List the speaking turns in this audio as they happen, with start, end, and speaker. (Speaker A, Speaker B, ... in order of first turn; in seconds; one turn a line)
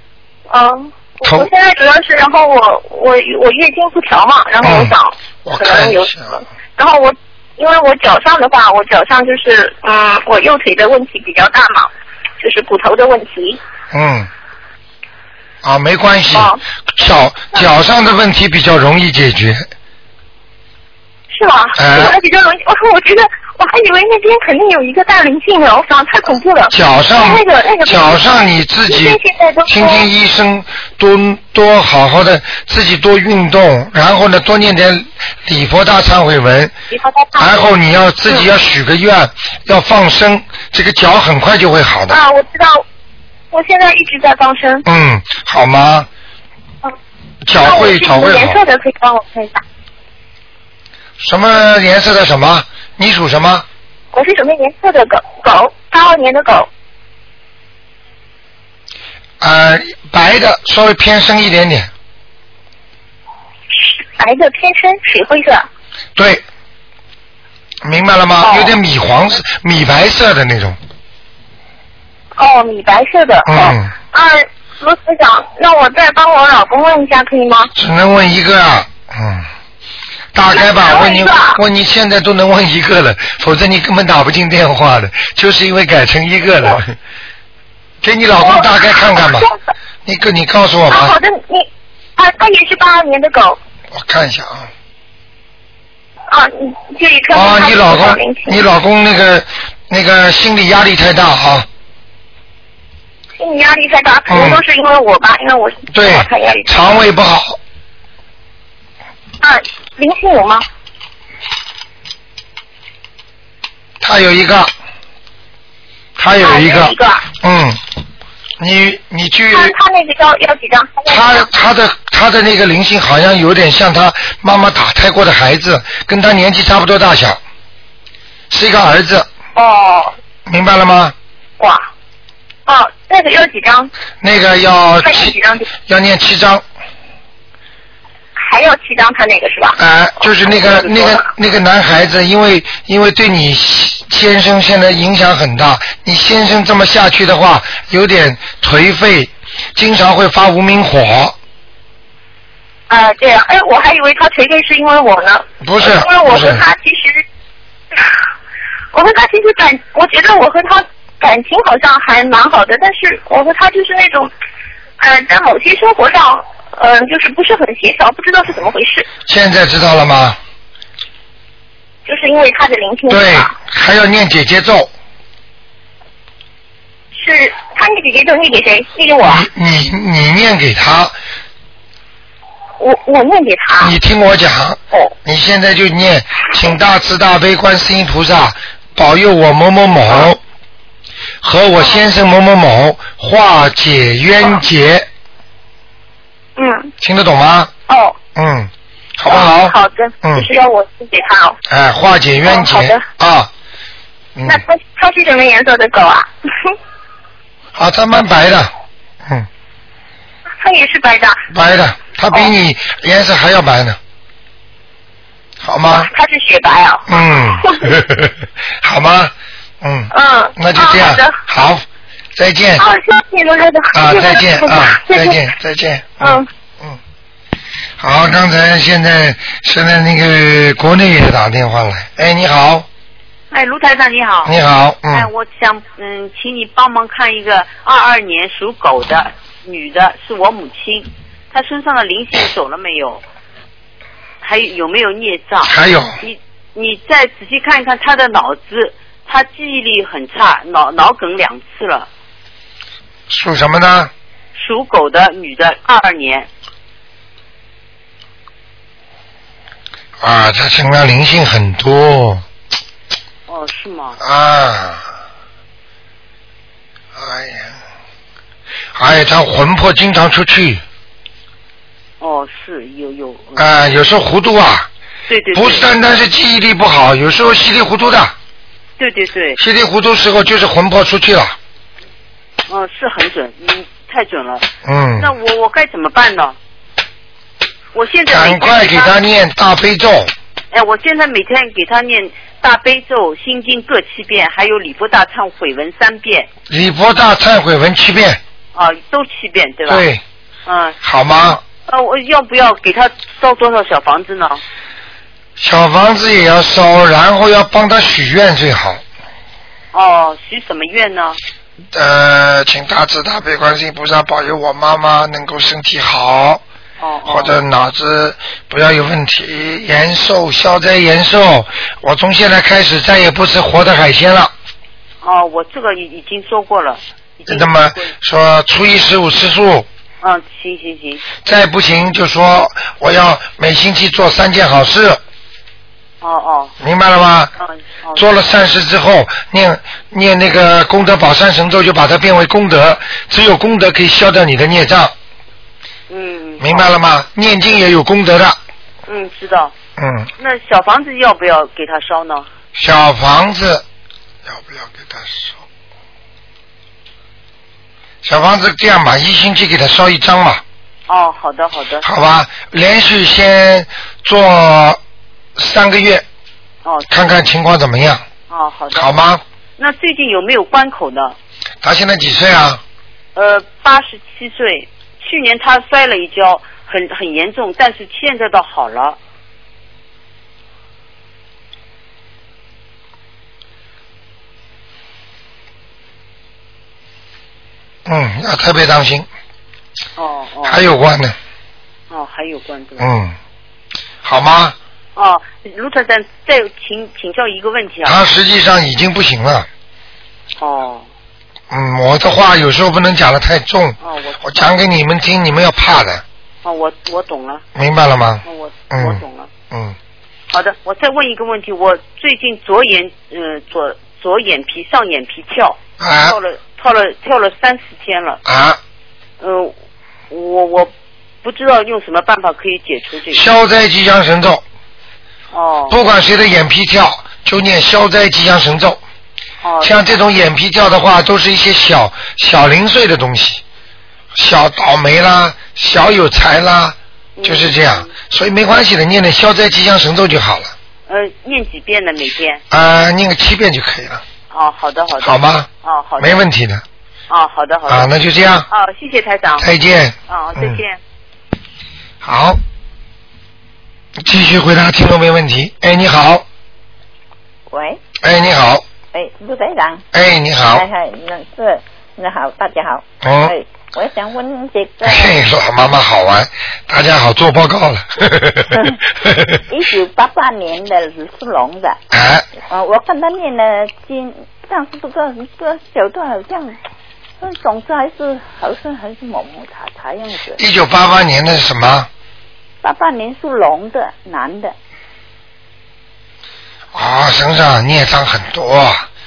Speaker A: 0.5-13.6
Speaker B: 1.2-1.5
Speaker B: 4.6-4.9
Speaker B: 5.4-6.4
Speaker B: 13.9-14.3
Speaker B: 15.6-19.7
Speaker A: 16.3-16.6
Speaker A: 21.3-30.1
Speaker B: 21.8-22.2
Speaker B: 26.7-36.7
Speaker A: 36.9-37.6
Speaker B: 37.4-42.2
Speaker A: 42.1-42.8
Speaker A: 43.5-44.8
Speaker B: 44.8-46.1
Speaker B: 47.4-48.6
Speaker A: 47.6-49.6
Speaker B: 51.2-53.6
Speaker A: 54.1-56.7
Speaker B: 59.4-61.9
Speaker A: 63.7-65.6
Speaker B: 66.2-66.4
Speaker B: 67.8-70.8
Speaker A: 68.4-68.7
Speaker A: 72.3-77.7
Speaker B: 73.5-73.9
Speaker B: 77.7-79.5
Speaker B: 80.3-86.9
Speaker A: 80.5-81.6
Speaker B: 88.0-89.5
Speaker A: 88.3-89.5
Speaker B: 90.0-91.2
Speaker A: 90.9-93.6
Speaker B: 93.9-94.7
Speaker A: 96.3-98.6
Speaker B: 97.3-101.7
Speaker A: 103.4-107.0
Speaker B: 104.3-104.6
Speaker B: 105.9-107.6
Speaker A: 109.4-110.6
Speaker B: 114.0-114.7
Speaker B: 116.2-117.8
Speaker A: 116.3-117.2
Speaker B: 118.6-119.7
Speaker A: 119.5-121.5
Speaker B: 121.1-127.4
Speaker B: 128.5-129.3
Speaker A: 129.6-130.1
Speaker B: 130.5-131.1
Speaker A: 131.6-131.9
Speaker A: 132.7-133.9
Speaker B: 134.2-136.6
Speaker A: 135.0-135.7
Speaker A: 138.3-141.2
Speaker B: 139.8-151.3
Speaker A: 152.9-157.2
Speaker B: 155.6-156.6
Speaker A: 158.9-164.3
Speaker A: 165.0-169.1
Speaker B: 169.2-170.4
Speaker A: 172.1-173.5
Speaker B: 173.1-174.9
Speaker A: 177.1-179.5
Speaker B: 179.2-181.2
Speaker A: 182.8-183.9
Speaker B: 183.8-190.4
Speaker B: 191.4-195.1
Speaker A: 191.8-192.0
Speaker A: 196.6-196.9
Speaker B: 197.0-197.7
Speaker A: 197.9-198.2
Speaker B: 198.3-200.5
Speaker A: 199.2-201.6
Speaker B: 201.7-203.5
Speaker A: 202.4-203.1
Speaker B: 204.3-204.6
Speaker A: 204.4-206.7
Speaker B: 207.7-208.7
Speaker A: 210.6-211.4
Speaker B: 211.5-214.0
Speaker B: 215.6-216.1
Speaker A: 215.8-217.9
Speaker B: 217.1-221.8
Speaker A: 220.1-221.4
Speaker B: 222.3-222.8
Speaker A: 222.8-225.4
Speaker B: 223.9-227.0
Speaker A: 226.2-226.5
Speaker B: 228.0-232.8
Speaker C: 233.5-234.5
Speaker B: 234.4-235.3
Speaker C: 235.1-243.2
Speaker C: 244.4-252.1
Speaker B: 245.6-246.2
Speaker B: 253.3-254.1
Speaker C: 254.5-256.5
Speaker B: 260.2-262.4
Speaker C: 263.5-264.2
Speaker B: 264.2-265.0
Speaker B: 267.1-267.8
Speaker B: 268.9-270.8
Speaker C: 272.2-273.9
Speaker B: 273.6-274.9
Speaker C: 275.3-275.9
Speaker B: 275.5-278.3
Speaker C: 279.0-279.6
Speaker B: 279.6-281.6
Speaker C: 282.7-286.6
Speaker B: 284.8-285.3
Speaker C: 287.9-289.1
Speaker B: 288.3-290.3
Speaker C: 290.7-296.5
Speaker B: 296.7-298.4
Speaker C: 298.7-300.0
Speaker B: 299.9-300.2
Speaker C: 300.6-300.9
Speaker B: 301.0-301.6
Speaker C: 301.9-304.6
Speaker B: 305.6-309.0
Speaker C: 309.9-311.4
Speaker B: 311.9-316.6
Speaker C: 317.0-317.6
Speaker B: 317.2-324.5
Speaker C: 325.2-328.1
Speaker B: 327.5-329.9
Speaker C: 330.2-331.2
Speaker B: 331.4-335.2
Speaker C: 336.2-336.7
Speaker B: 336.8-337.5
Speaker C: 337.6-338.2
Speaker B: 338.1-345.1
Speaker C: 346.1-346.9
Speaker B: 346.6-348.6
Speaker C: 349.1-349.7
Speaker B: 350.0-350.3
Speaker C: 350.4-352.5
Speaker B: 352.8-353.8
Speaker B: 354.4-355.6
Speaker B: 358.2-360.6
Speaker C: 361.1-362.1
Speaker B: 362.0-365.0
Speaker B: 365.6-366.2
Speaker B: 367.1-368.2
Speaker C: 368.5-369.2
Speaker B: 368.9-369.4
Speaker C: 369.8-371.4
Speaker B: 371.8-372.8
Speaker C: 373.3-379.2
Speaker B: 388.1-389.3
Speaker C: 390.2-390.8
Speaker B: 390.6-391.3
Speaker C: 392.1-393.1
Speaker B: 393.0-393.4
Speaker B: 394.2-394.8
Speaker C: 395.1-398.2
Speaker B: 398.0-399.7
Speaker C: 400.6-401.1
Speaker B: 401.7-406.2
Speaker C: 404.0-404.8
Speaker C: 406.6-407.6
Speaker B: 407.7-409.9
Speaker C: 408.4-409.5
Speaker C: 410.5-418.4
Speaker B: 416.0-416.4
Speaker B: 418.4-418.8
Speaker C: 419.4-419.7
Speaker C: 420.3-420.9
Speaker C: 421.4-423.5
Speaker B: 423.3-424.6
Speaker C: 425.5-426.0
Speaker B: 425.9-429.0
Speaker C: 429.6-430.2
Speaker B: 429.8-433.6
Speaker B: 434.3-440.7
Speaker C: 437.4-438.1
Speaker C: 441.1-442.6
Speaker B: 442.7-444.2
Speaker C: 444.5-446.4
Speaker B: 445.2-446.8
Speaker C: 447.3-448.1
Speaker B: 447.9-448.7
Speaker C: 448.7-449.7
Speaker B: 449.6-450.8
Speaker C: 450.3-451.0
Speaker B: 452.2-452.6
Speaker B: 454.2-456.4
Speaker B: 458.2-458.8
Speaker D: 459.2-459.9
Speaker B: 460.1-460.9
Speaker D: 460.8-465.3
Speaker B: 463.2-463.5
Speaker B: 465.0-469.6
Speaker D: 469.7-471.9
Speaker B: 472.1-472.5
Speaker D: 472.7-476.7
Speaker D: 477.4-480.5
Speaker B: 480.6-482.1
Speaker D: 482.8-484.7
Speaker B: 486.9-489.1